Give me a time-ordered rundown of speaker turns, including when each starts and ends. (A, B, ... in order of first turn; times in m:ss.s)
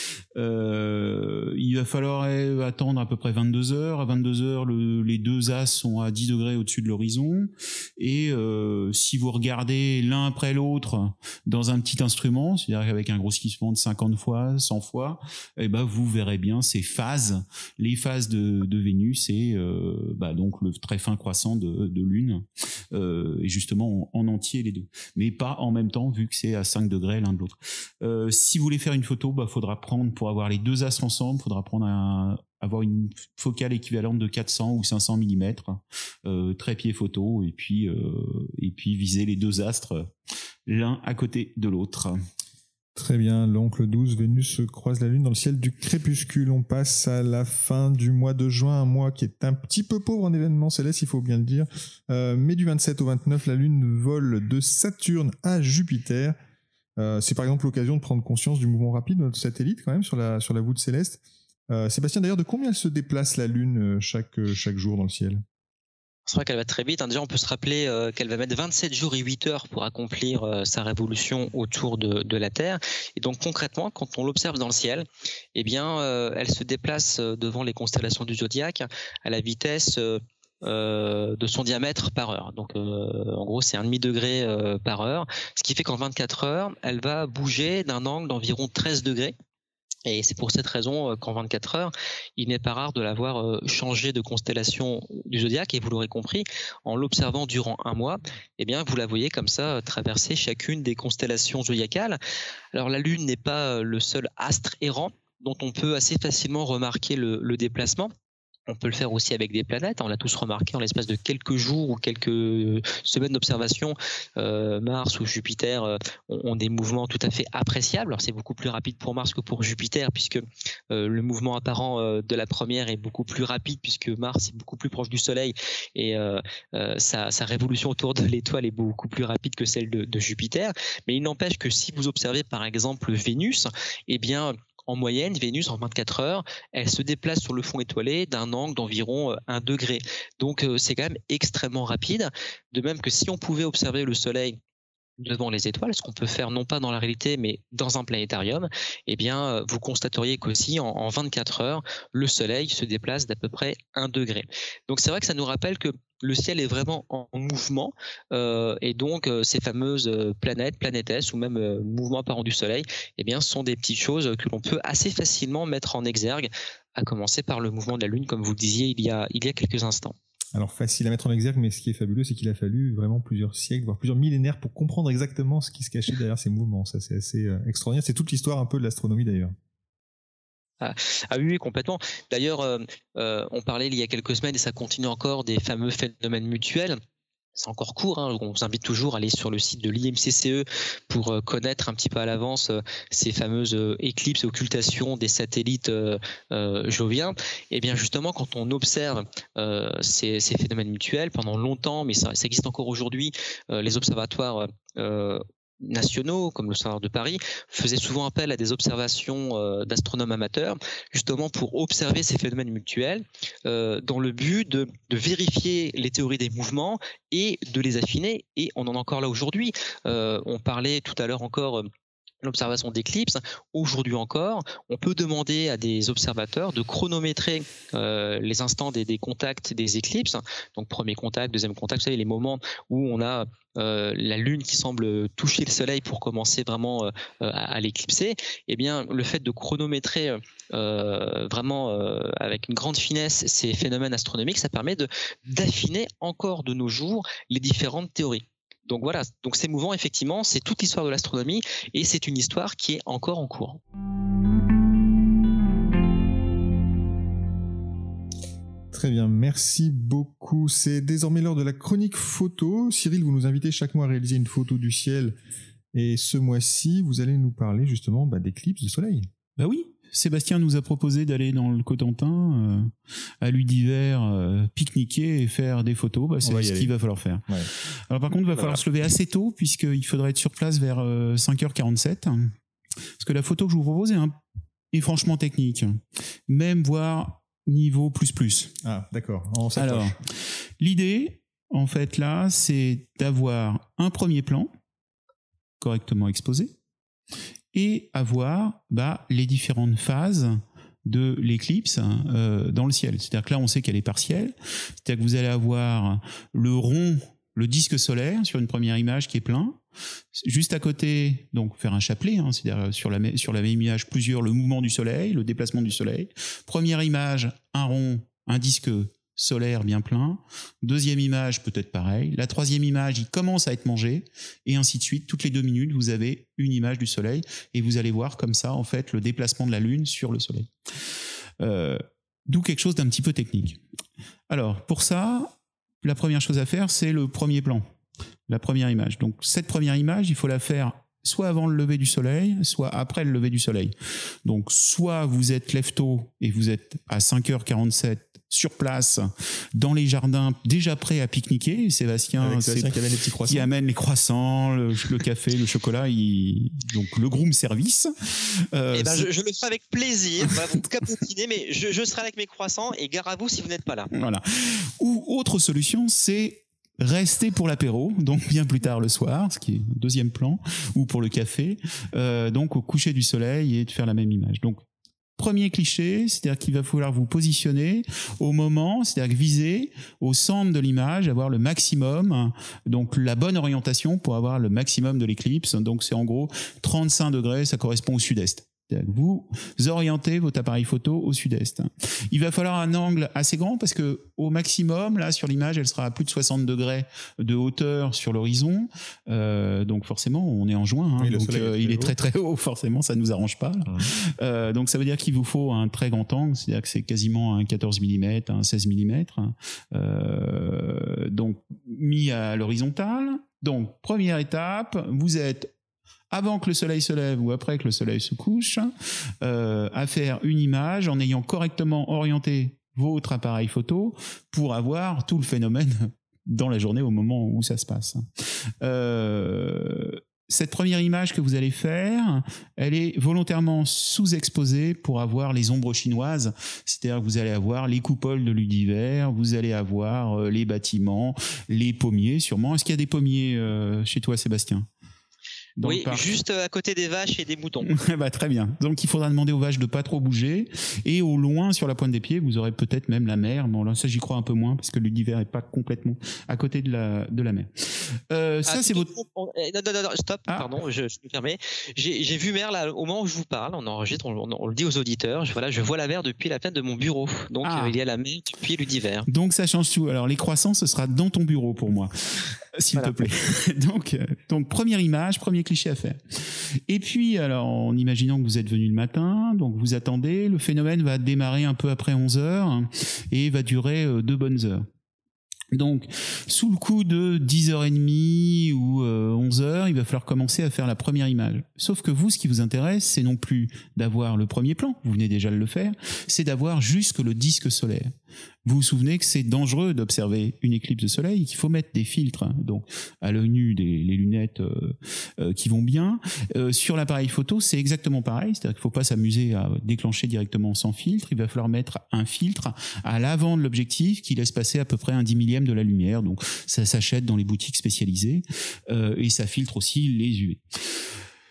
0:00.4-0:40.1 A
0:40.7-0:42.2 A
0:43.0-0:56.4 B
0:57.0-1:05.4 B
1:06.3-1:29.3 C
1:30.1-1:42.2 C
1:42.7-1:48.1 C
1:48.7-2:24.6 C
2:25.2-2:50.2 C
2:50.6-2:59.5 B
3:00.8-3:07.0 C
3:07.6-3:41.9 C
3:42.4-4:13.8 C
4:18.9-4:25.4 B
4:25.9-4:29.3 B
4:29.6-4:37.5 A
4:36.4-4:36.9 B
4:38.1-4:42.5 A
4:43.2-4:44.4 A
4:44.9-4:48.7 A
4:48.8-4:50.2 B
4:49.8-4:50.3 A
4:50.8-4:54.7 A
4:55.8-4:56.7 A
4:57.7-5:09.8 A
5:10.3-5:30.7 A
5:31.6-5:33.8 A
5:34.5-5:37.9 A
5:38.5-5:43.9 A
5:44.4-5:53.0 A
5:52.4-5:53.7 B
5:53.5-5:59.3 A
5:58.9-6:04.1 C
6:04.1-6:14.8 A
6:15.4-6:55.7 A
6:41.2-6:42.1 B
6:56.3-7:08.3 A
7:08.8-7:24.9 A
7:25.8-7:26.2 A
7:25.8-7:27.9 C
7:27.8-7:39.1 A
7:38.7-7:49.3 C
7:47.6-7:48.0 A
7:49.3-8:04.9 A
8:05.7-8:18.1 A
8:18.6-8:40.6 A